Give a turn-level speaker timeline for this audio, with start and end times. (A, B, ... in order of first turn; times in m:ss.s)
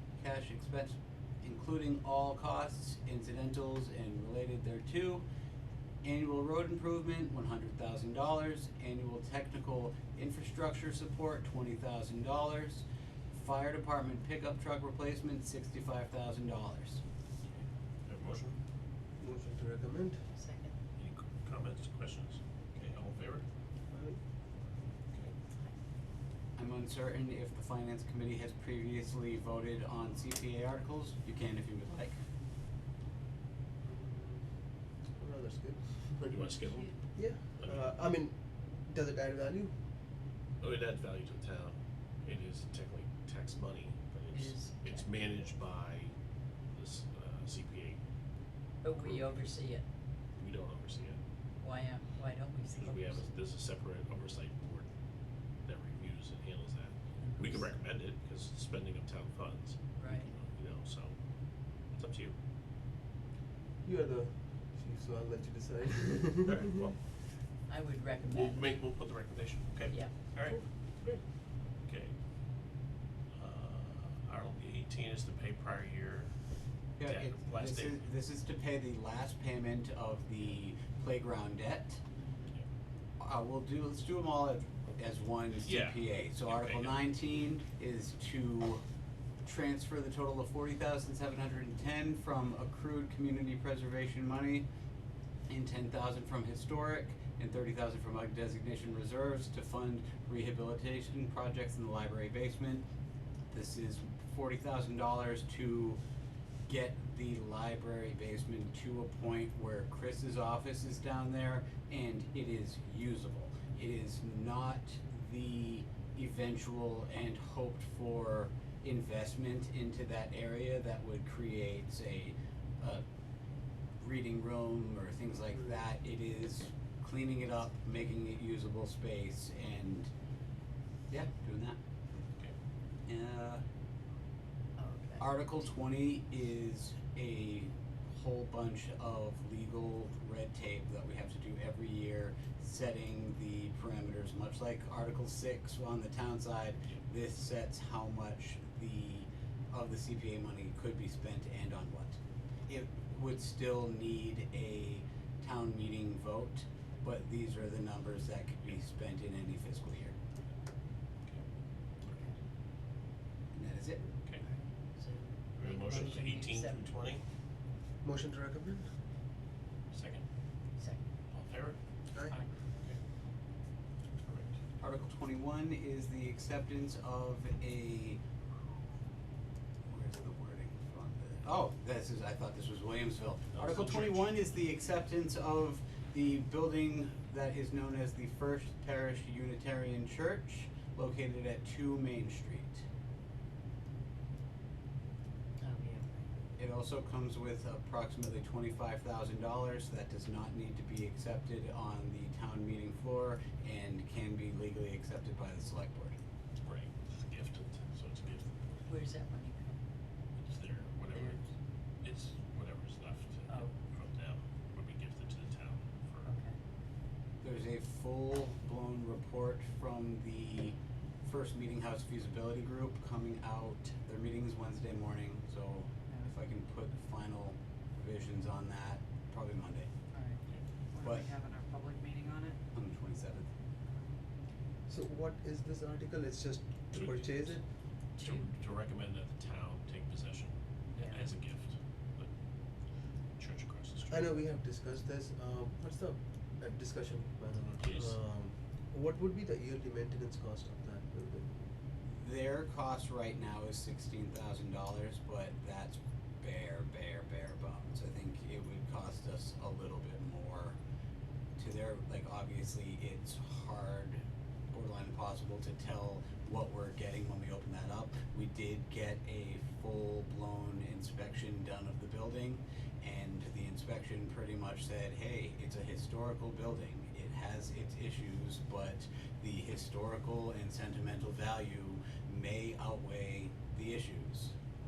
0:00.2-0:05.2 A
0:06.0-0:17.0 A
0:18.0-0:18.6 B
0:19.2-0:20.3 C
0:20.3-0:20.7 D
0:21.0-0:23.4 B
0:23.9-0:24.2 C
0:26.6-0:32.2 A
0:33.8-0:36.3 C
0:36.2-0:38.0 B
0:37.1-0:39.8 C
0:40.6-0:46.1 B
0:44.3-0:45.1 D
0:46.7-0:48.0 B
0:48.8-0:49.8 D
0:48.9-0:49.5 B
0:50.4-0:51.2 B
0:51.6-0:53.2 D
0:52.7-0:54.9 B
0:55.6-1:01.2 B
0:57.2-0:57.6 D
1:00.0-1:00.3 D
1:01.9-1:02.4 B
1:03.8-1:06.7 C
1:06.4-1:07.0 B
1:07.7-1:08.9 D
1:08.3-1:12.1 B
1:09.9-1:10.1 D
1:10.5-1:11.1 C
1:13.3-1:16.3 B
1:17.0-1:22.0 A
1:17.0-1:18.0 B
1:23.2-1:28.8 A
1:25.6-1:27.0 B
1:29.4-1:34.6 A
1:35.5-1:42.8 A
1:43.5-1:46.0 A
1:46.7-2:03.0 A
2:04.0-2:10.1 A
2:11.1-2:11.8 A
2:13.1-2:13.6 A
2:14.8-2:15.2 D
2:15.2-2:32.2 A
2:32.7-2:40.2 A
2:42.1-2:42.3 D
2:43.5-2:44.0 A
2:45.0-2:47.0 D
2:45.5-2:47.2 B
2:48.0-2:49.0 C
2:49.9-2:50.2 B
2:50.8-2:51.0 D
2:51.3-2:51.8 B
2:52.1-2:52.4 C
2:54.2-2:54.5 B
2:54.8-2:58.2 A
2:59.9-3:12.8 A
3:03.5-3:04.4 B
3:15.6-3:16.2 D
3:16.6-3:26.2 A
3:26.6-3:28.8 B
3:28.8-3:29.8 D
3:30.4-3:31.4 B
3:32.0-3:36.3 B
3:36.2-3:36.5 D
3:37.4-3:49.9 A
3:50.1-3:50.4 E
3:50.9-3:52.6 E
3:51.0-3:51.3 A
3:52.7-3:53.5 A
3:54.9-3:57.7 C
3:56.9-4:02.3 B
4:00.9-4:01.3 E
4:03.4-4:04.3 B
4:04.1-4:11.5 C
4:07.8-4:08.2 B
4:12.0-4:20.8 A
4:21.6-4:44.6 A